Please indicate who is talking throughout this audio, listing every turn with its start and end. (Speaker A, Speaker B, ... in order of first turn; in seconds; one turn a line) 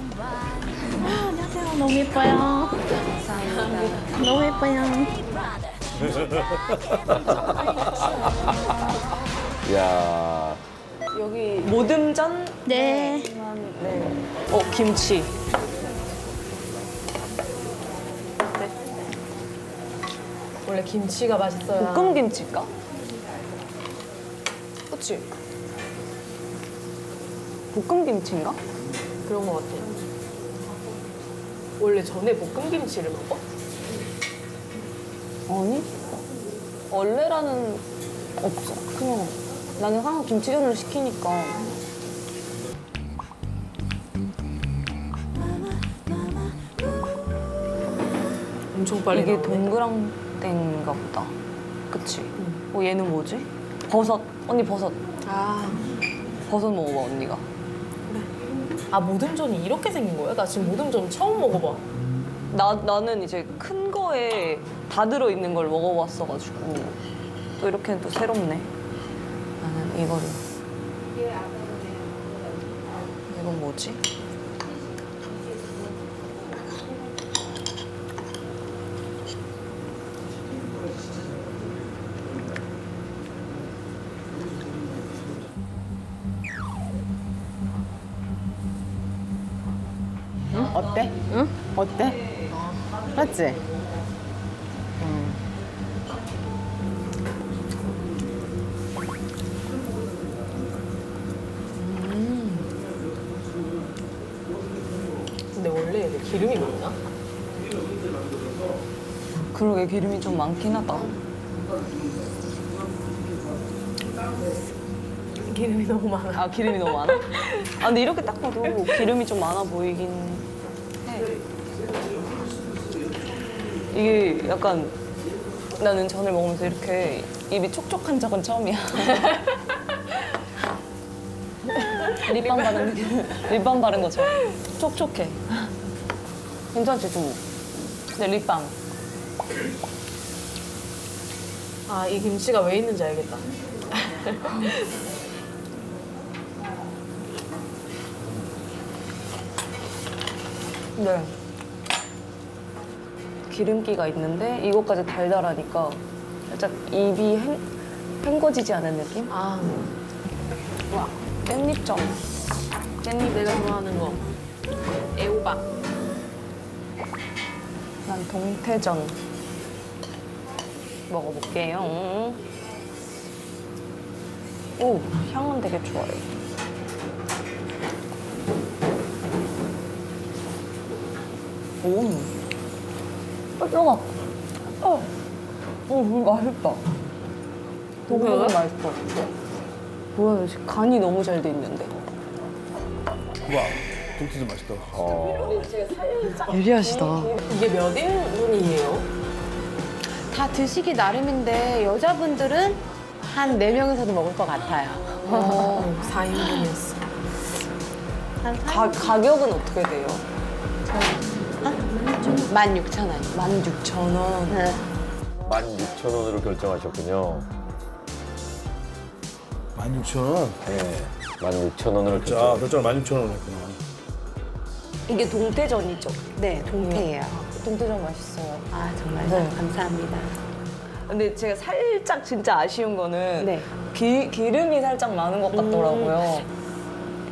Speaker A: 1.2-2.8
Speaker B: 2.8-4.4
Speaker C: 3.4-4.2
Speaker A: 4.2-5.1
Speaker D: 6.9-8.5
Speaker D: 9.6-10.6
Speaker B: 11.1-14.3
Speaker A: 12.7-13.2
Speaker C: 14.5-15.3
Speaker C: 18.4-18.7
Speaker C: 20.6-22.2
Speaker B: 21.8-22.7
Speaker B: 24.9-25.2
Speaker B: 27.7-28.6
Speaker C: 29.2-29.9
Speaker C: 31.8-33.5
Speaker B: 35.5-35.9
Speaker B: 36.9-37.8
Speaker B: 38.4-41.6
Speaker C: 48.7-49.7
Speaker B: 49.1-51.3
Speaker B: 51.9-55.0
Speaker C: 55.2-55.9
Speaker B: 56.4-57.5
Speaker C: 58.9-61.8
Speaker B: 62.5-67.0
Speaker B: 67.6-68.7
Speaker B: 69.6-70.4
Speaker B: 73.3-74.0
Speaker B: 90.6-92.5
Speaker E: 90.7-92.2
Speaker E: 93.0-93.6
Speaker B: 101.8-102.7
Speaker C: 105.5-107.0
Speaker F: 107.6-108.5
Speaker B: 109.5-111.2
Speaker F: 111.7-113.5
Speaker C: 115.4-117.8
Speaker B: 116.3-120.5
Speaker C: 118.6-119.1
Speaker F: 121.1-123.8
Speaker B: 123.9-125.0
Speaker B: 125.8-129.5
Speaker B: 132.1-135.4
Speaker C: 132.6-132.9
Speaker B: 136.7-137.4
Speaker B: 138.1-138.7
Speaker C: 141.9-144.9
Speaker B: 151.0-151.3
Speaker B: 153.5-157.7
Speaker B: 158.2-159.3
Speaker C: 159.3-159.9
Speaker C: 160.9-161.1
Speaker B: 161.4-162.2
Speaker B: 163.0-163.8
Speaker C: 163.2-164.3
Speaker C: 165.1-165.7
Speaker B: 168.1-169.2
Speaker B: 171.1-172.4
Speaker B: 174.8-176.3
Speaker B: 181.8-182.3
Speaker B: 183.6-184.2
Speaker B: 184.8-185.1
Speaker B: 185.9-186.8
Speaker B: 188.1-189.0
Speaker C: 188.1-188.6
Speaker B: 190.1-191.9
Speaker F: 193.4-195.1
Speaker D: 194.9-195.7
Speaker B: 195.3-197.5
Speaker C: 197.2-199.1
Speaker E: 200.3-205.2
Speaker C: 205.2-207.0
Speaker B: 205.3-205.9
Speaker E: 208.4-209.0
Speaker B: 208.6-210.2
Speaker B: 212.2-214.6
Speaker E: 212.4-213.3
Speaker E: 214.5-214.8
Speaker D: 215.4-217.5
Speaker F: 219.8-220.6
Speaker D: 220.6-222.7
Speaker F: 222.1-223.8
Speaker B: 225.1-228.7
Speaker E: 226.4-227.4
Speaker E: 228.7-230.3
Speaker B: 229.2-229.6
Speaker B: 231.0-236.5
Speaker E: 233.4-233.7
Speaker C: 235.6-236.2